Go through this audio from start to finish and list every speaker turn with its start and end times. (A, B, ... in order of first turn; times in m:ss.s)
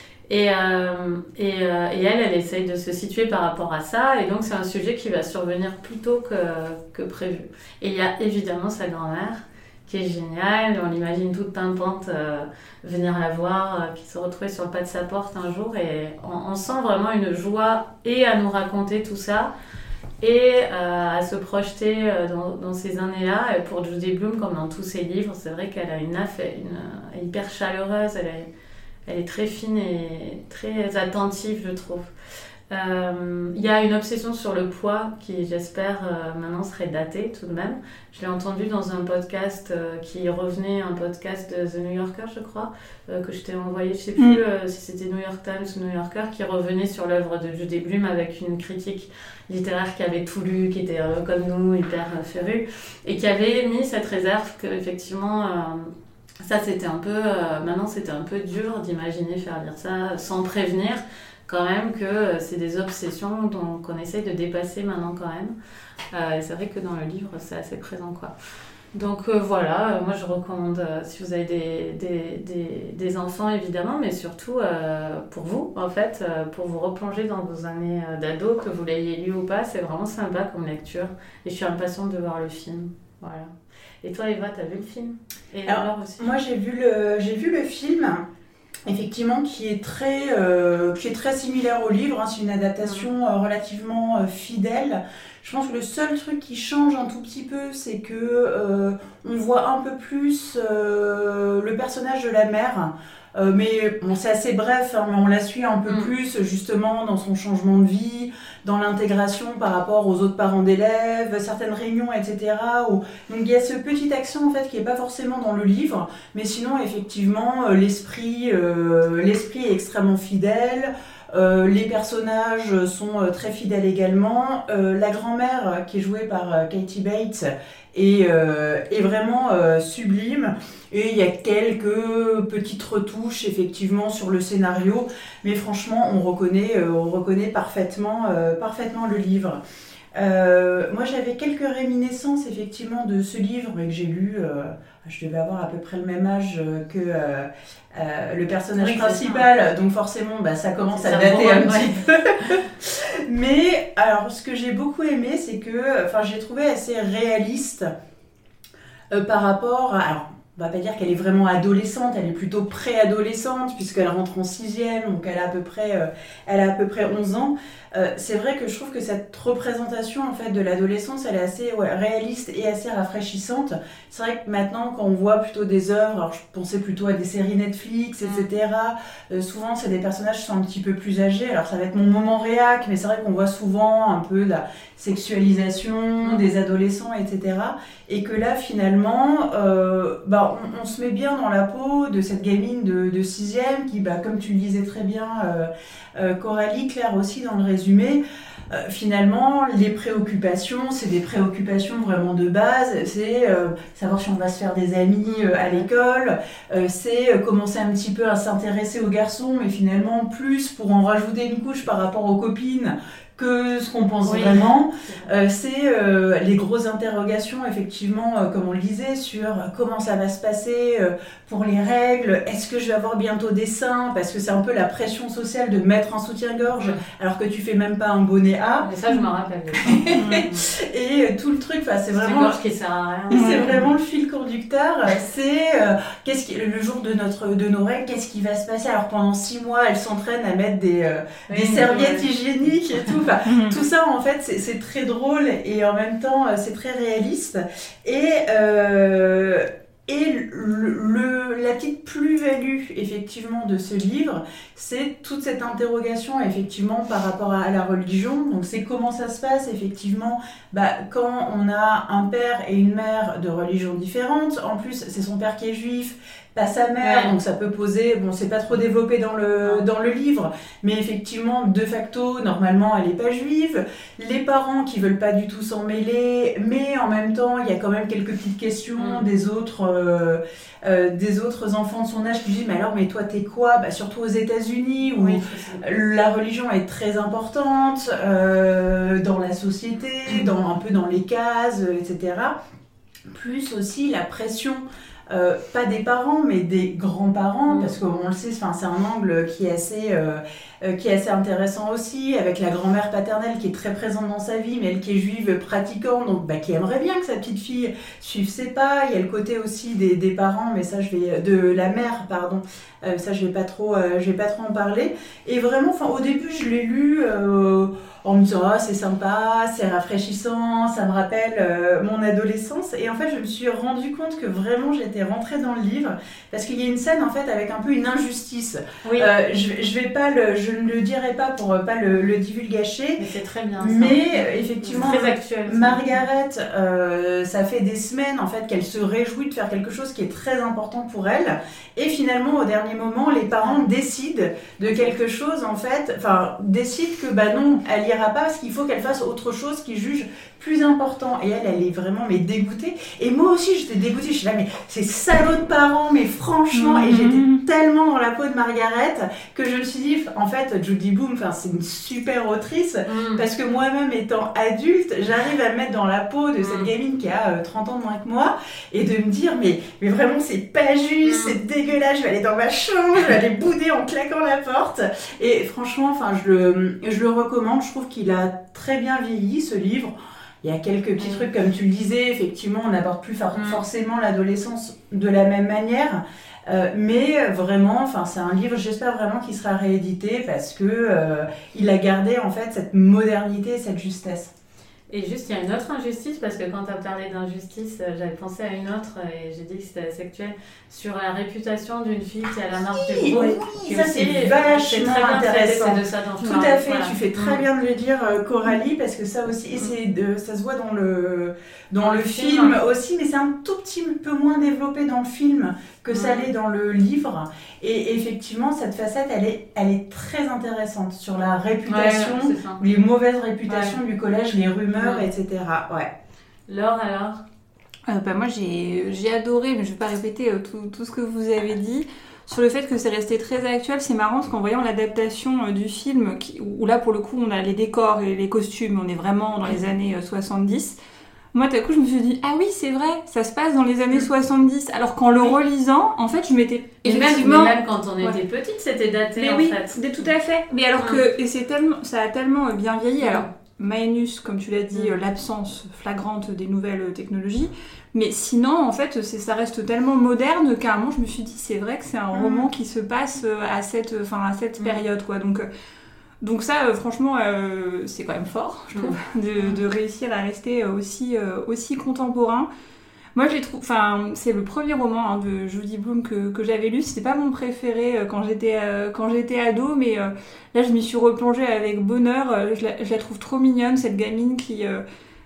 0:00.3-0:19.5 A
0:20.2-0:28.5 A
0:29.0-0:32.1 A
0:32.7-1:05.5 A
1:06.1-1:08.3 A
1:08.9-1:23.5 A
1:24.0-1:26.3 A
1:25.6-1:28.2 B
1:28.8-2:19.6 B
1:32.8-1:33.1 A
1:45.8-1:46.1 A
2:20.1-2:37.9 B
2:28.8-2:29.5 A
2:30.9-2:32.0 A
2:39.1-3:48.9 B
2:58.2-2:58.5 A
3:06.2-3:06.5 A
3:25.2-3:25.9 A
3:34.2-3:35.3 A
3:48.8-3:50.7 A
3:49.8-3:52.6 B
3:50.2-3:50.4 C
3:52.1-3:53.8 A
3:53.3-4:52.5 B
3:53.3-3:53.8 C
4:01.5-4:02.3 A
4:03.4-4:03.8 C
4:27.0-4:27.3 A
4:39.0-4:39.2 A
4:45.1-4:45.8 A
4:53.3-5:33.2 B
4:57.7-4:57.9 A
5:29.0-5:29.3 A
5:33.2-5:36.2 A
5:33.8-6:34.5 B
5:44.9-5:45.1 A
5:56.7-5:57.6 C
6:03.1-6:03.4 A
6:06.6-6:06.9 A
6:11.2-6:11.6 A
6:21.2-6:21.4 A
6:23.5-6:23.8 A
6:35.1-6:47.6 A
6:42.9-7:06.1 B
6:52.0-6:52.8 A
6:56.1-6:56.5 A
7:01.9-7:02.8 A
7:03.7-7:04.0 A
7:05.0-7:05.2 A
7:06.7-7:07.4 A
7:08.1-7:21.0 C
7:21.5-7:28.4 C
7:27.0-7:30.3 A
7:29.4-7:45.7 C
7:33.2-7:33.5 A
7:42.4-7:42.6 B
7:46.4-7:52.7 C
7:48.9-7:49.7 A
7:53.3-8:05.0 C